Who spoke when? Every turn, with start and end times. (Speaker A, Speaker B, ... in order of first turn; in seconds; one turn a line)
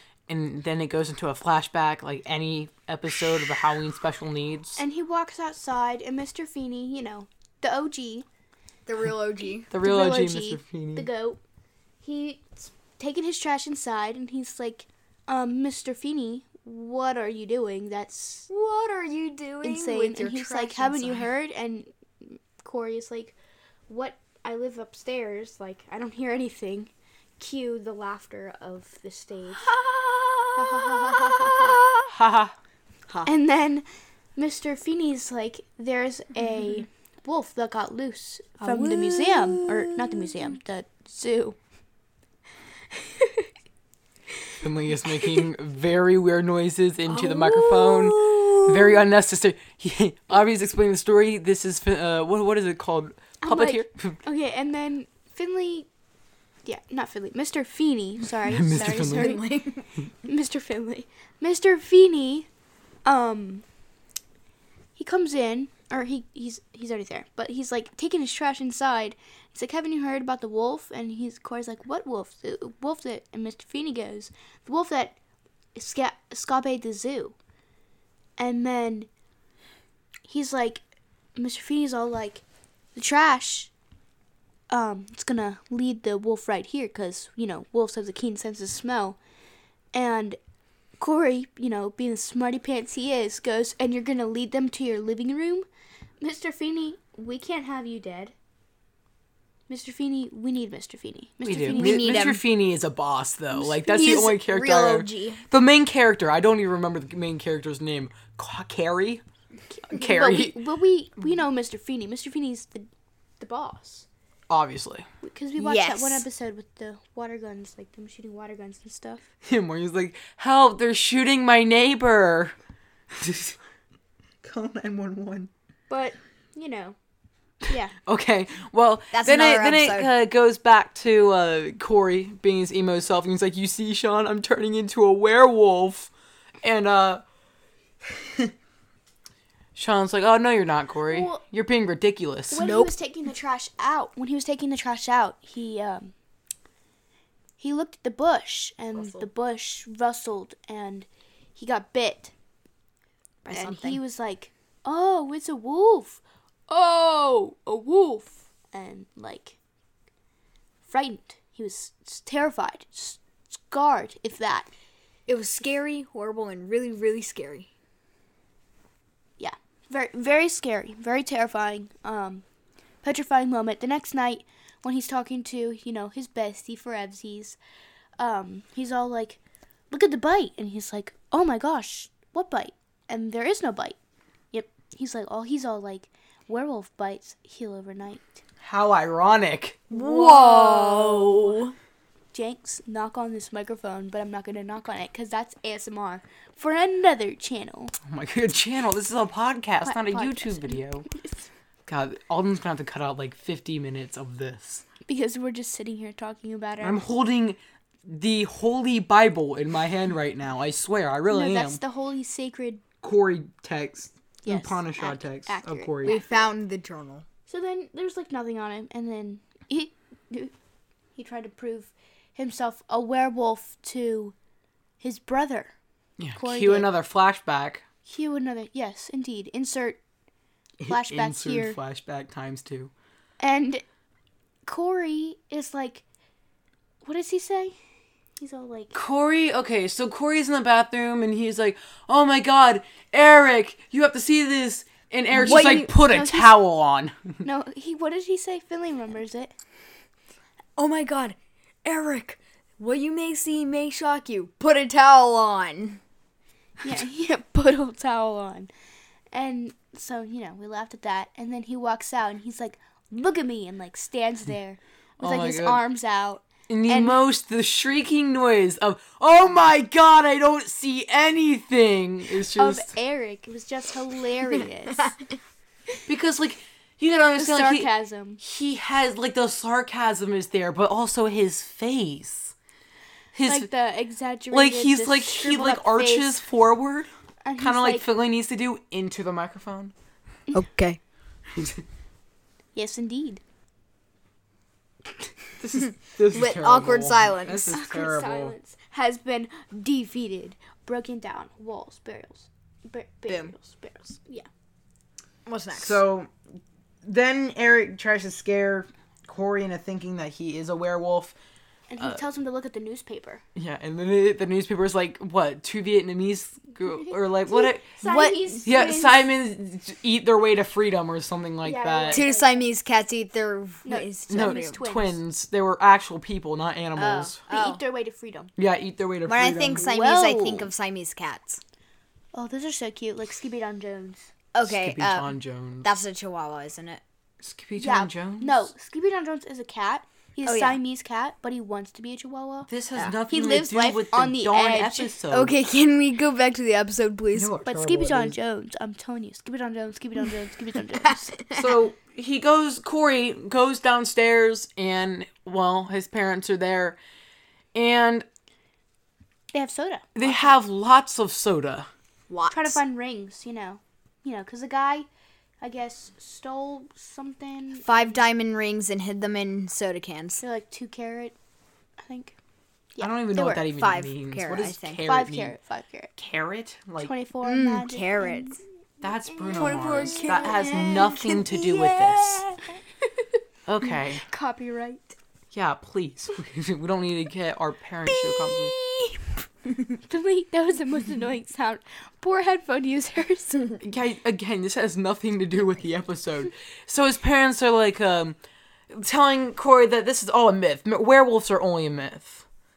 Speaker A: 0.3-4.8
Speaker B: 4.8-8.2
Speaker C: 8.9-9.7
Speaker A: 9.7-11.1
Speaker B: 9.8-11.4
Speaker B: 12.0-18.5
Speaker C: 18.5-21.3
Speaker B: 19.6-23.4
Speaker B: 23.9-29.7
Speaker C: 29.6-32.1
Speaker B: 30.6-31.8
Speaker A: 32.1-32.5
Speaker B: 33.2-33.9
Speaker B: 34.4-41.6
Speaker C: 38.6-40.5
Speaker B: 43.0-43.5
Speaker A: 44.6-54.2
Speaker C: 47.1-49.0
Speaker B: 53.4-55.9
Speaker B: 56.6-59.4
Speaker A: 58.5-59.4
Speaker C: 58.8-59.9
Speaker B: 60.2-62.5
Speaker B: 63.1-63.6
Speaker B: 65.0-75.2
Speaker B: 75.8-77.3
Speaker B: 78.4-79.1
Speaker B: 80.3-80.8
Speaker B: 81.4-82.4
Speaker B: 82.9-83.7
Speaker B: 84.7-89.2
Speaker B: 89.9-90.4
Speaker B: 91.0-95.7
Speaker B: 96.2-98.3
Speaker B: 99.7-102.2
Speaker A: 101.4-109.2
Speaker C: 101.7-102.4
Speaker C: 103.5-105.4
Speaker B: 109.8-112.9
Speaker A: 109.9-110.6
Speaker B: 113.4-114.1
Speaker A: 114.5-115.1
Speaker B: 115.2-119.2
Speaker C: 115.6-116.2
Speaker A: 119.4-122.5
Speaker A: 123.1-123.6
Speaker A: 124.4-125.5
Speaker B: 125.9-127.0
Speaker B: 127.7-127.9
Speaker A: 128.1-136.1
Speaker C: 129.1-130.1
Speaker A: 136.6-137.2
Speaker A: 139.8-142.7
Speaker B: 141.1-141.4
Speaker B: 142.5-146.1
Speaker C: 142.6-142.9
Speaker B: 147.6-152.3
Speaker C: 148.9-149.2
Speaker C: 153.4-154.0
Speaker B: 153.5-159.6
Speaker B: 160.9-164.7
Speaker C: 165.3-167.7
Speaker B: 169.4-172.4
Speaker B: 173.0-177.6
Speaker B: 178.2-179.4
Speaker B: 179.9-184.0
Speaker B: 184.5-188.4
Speaker A: 188.6-191.6
Speaker C: 189.9-191.7
Speaker B: 192.3-197.9
Speaker A: 198.1-201.1
Speaker B: 199.8-201.4
Speaker A: 201.9-204.8
Speaker B: 205.1-207.1
Speaker A: 206.8-211.8
Speaker B: 211.3-212.8
Speaker A: 213.0-216.2
Speaker B: 214.4-216.5
Speaker C: 216.0-217.2
Speaker B: 217.5-220.5
Speaker B: 221.2-224.3
Speaker B: 225.0-225.7
Speaker A: 226.2-227.8
Speaker B: 226.4-226.9
Speaker B: 228.1-230.0
Speaker A: 230.8-232.9
Speaker B: 230.9-231.8
Speaker B: 233.4-233.8
Speaker B: 234.7-236.0
Speaker B: 237.0-237.8
Speaker B: 238.4-238.9
Speaker A: 238.9-247.4
Speaker C: 245.3-245.9
Speaker B: 245.4-246.5
Speaker B: 247.4-249.5
Speaker C: 250.8-256.0
Speaker B: 256.8-258.7
Speaker B: 259.3-267.2
Speaker A: 265.2-265.8
Speaker A: 266.7-272.9
Speaker B: 272.6-275.2
Speaker C: 275.0-275.2
Speaker A: 276.1-277.9
Speaker B: 277.4-278.4
Speaker A: 278.4-282.5
Speaker A: 283.3-283.7
Speaker B: 283.5-286.4
Speaker A: 284.5-289.9
Speaker B: 287.4-288.1
Speaker C: 290.5-291.0
Speaker A: 291.6-291.8
Speaker B: 292.7-293.4
Speaker A: 295.6-298.6
Speaker C: 296.3-297.8
Speaker B: 297.7-304.5
Speaker C: 303.3-303.5
Speaker C: 305.4-306.0
Speaker A: 305.7-306.3
Speaker A: 307.0-311.3
Speaker B: 311.9-313.4
Speaker A: 313.6-317.9
Speaker B: 316.9-319.2
Speaker C: 318.0-318.6
Speaker A: 318.6-322.2
Speaker B: 321.6-322.7
Speaker C: 322.1-324.8
Speaker B: 323.8-325.2
Speaker A: 324.3-327.4
Speaker C: 326.9-327.8
Speaker B: 327.5-328.5
Speaker A: 328.6-329.9
Speaker C: 329.3-331.6
Speaker B: 329.8-330.7
Speaker B: 332.3-334.3
Speaker C: 334.5-335.3
Speaker A: 334.6-335.9
Speaker C: 335.8-337.0
Speaker A: 337.4-338.7
Speaker B: 337.8-342.7
Speaker C: 340.4-340.8
Speaker A: 342.7-345.5
Speaker B: 343.3-345.1
Speaker C: 345.3-347.5
Speaker A: 347.3-348.4
Speaker B: 347.6-351.4
Speaker A: 351.5-357.0
Speaker A: 357.7-358.2
Speaker B: 359.5-360.6
Speaker A: 360.2-361.9
Speaker C: 362.3-362.8
Speaker B: 362.5-365.1
Speaker B: 365.6-368.2
Speaker C: 367.8-370.4
Speaker B: 370.4-371.3
Speaker B: 372.1-372.4
Speaker B: 372.9-373.7
Speaker A: 373.0-375.5
Speaker C: 373.7-375.0
Speaker B: 375.1-376.1
Speaker A: 376.2-377.1
Speaker B: 377.0-381.1
Speaker C: 377.4-378.6
Speaker A: 379.0-382.5
Speaker C: 379.5-382.6
Speaker B: 383.0-385.2
Speaker A: 383.7-384.2
Speaker A: 385.5-388.8
Speaker B: 388.1-389.3
Speaker B: 390.1-393.7
Speaker A: 393.8-398.4
Speaker A: 398.9-402.4